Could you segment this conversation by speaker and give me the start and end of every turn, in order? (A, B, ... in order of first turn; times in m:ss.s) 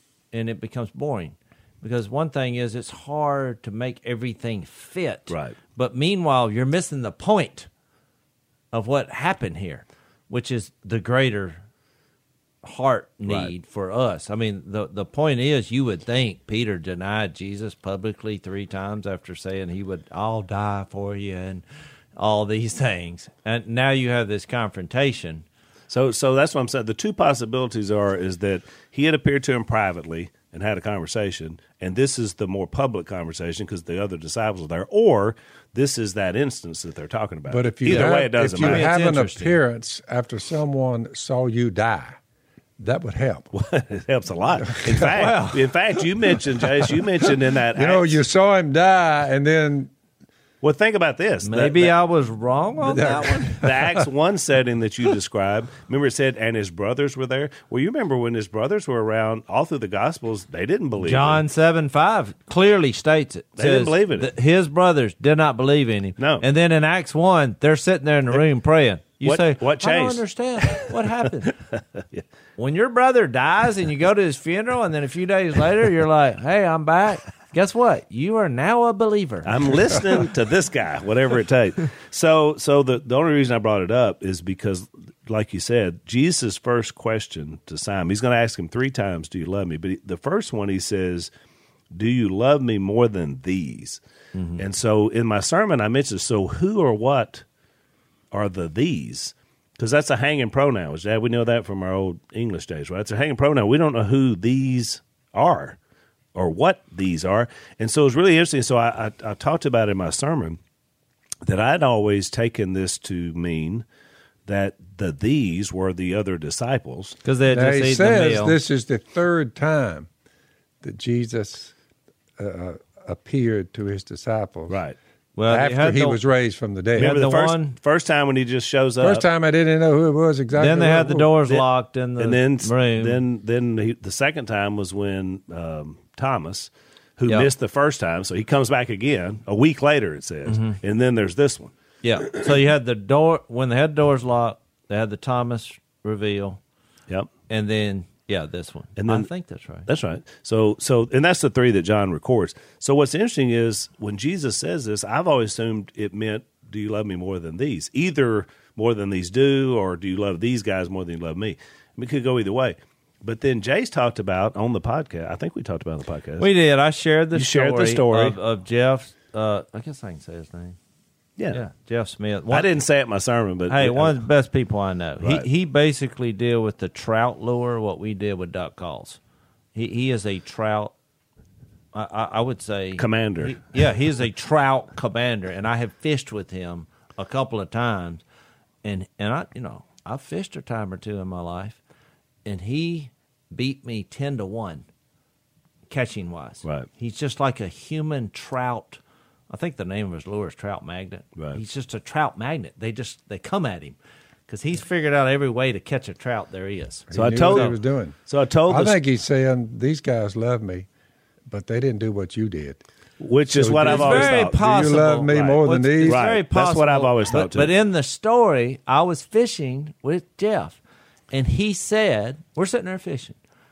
0:00.3-0:07.7 A
0:05.3-0:05.6 B
0:08.7-0:11.6 A
0:12.6-0:21.6 A
0:13.2-0:13.5 B
0:22.1-0:25.4 A
0:25.9-0:38.9 B
0:37.5-0:42.2 C
0:37.9-0:39.6 A
0:42.8-0:43.5 C
0:43.5-0:48.2 B
0:44.7-0:45.1 C
0:45.0-0:45.7 A
0:46.9-0:49.9 C
0:50.6-0:51.9 B
0:51.4-0:53.6 A
0:52.9-0:54.0 C
0:53.5-1:01.4 B
1:01.0-1:11.6 A
1:03.6-1:04.3 B
1:06.2-1:06.4 B
1:09.2-1:12.2 B
1:12.6-1:20.1 A
1:19.4-1:31.3 B
1:31.9-1:34.0 B
1:34.3-1:34.6 A
1:34.6-1:37.4 B
1:38.3-1:45.8 B
1:46.3-1:50.6 B
1:51.4-1:53.8 B
1:54.5-1:57.2 B
1:57.2-1:58.6 A
1:57.5-2:00.1 C
2:00.8-2:01.7 C
2:02.4-2:04.8 C
2:04.7-2:05.0 B
2:05.4-2:06.2 A
2:05.5-2:07.2 C
2:07.0-2:09.2 B
2:07.0-2:07.8 A
2:09.0-2:11.3 C
2:10.5-2:13.2 A
2:12.2-2:21.7 B
2:20.5-2:20.8 A
2:22.0-2:26.6 A
2:27.5-2:29.9 A
2:29.0-2:29.3 B
2:29.8-2:46.5 B
2:46.4-2:50.8 A
2:47.3-2:48.4 B
2:51.5-2:52.7 A
2:52.5-2:54.2 B
2:53.7-2:59.2 A
2:55.2-2:55.5 B
2:59.7-3:00.9 A
3:01.9-3:08.2 A
3:03.0-3:03.7 B
3:08.8-3:11.8 A
3:12.4-3:14.8 A
3:15.9-3:24.0 A
3:24.5-3:27.8 A
3:27.1-3:28.2 C
3:27.1-3:29.0 B
3:28.7-3:30.9 C
3:31.5-3:32.8 C
3:33.2-3:34.6 B
3:33.5-3:36.2 C
3:33.8-3:40.8 A
3:36.1-3:37.7 B
3:41.3-3:43.4 A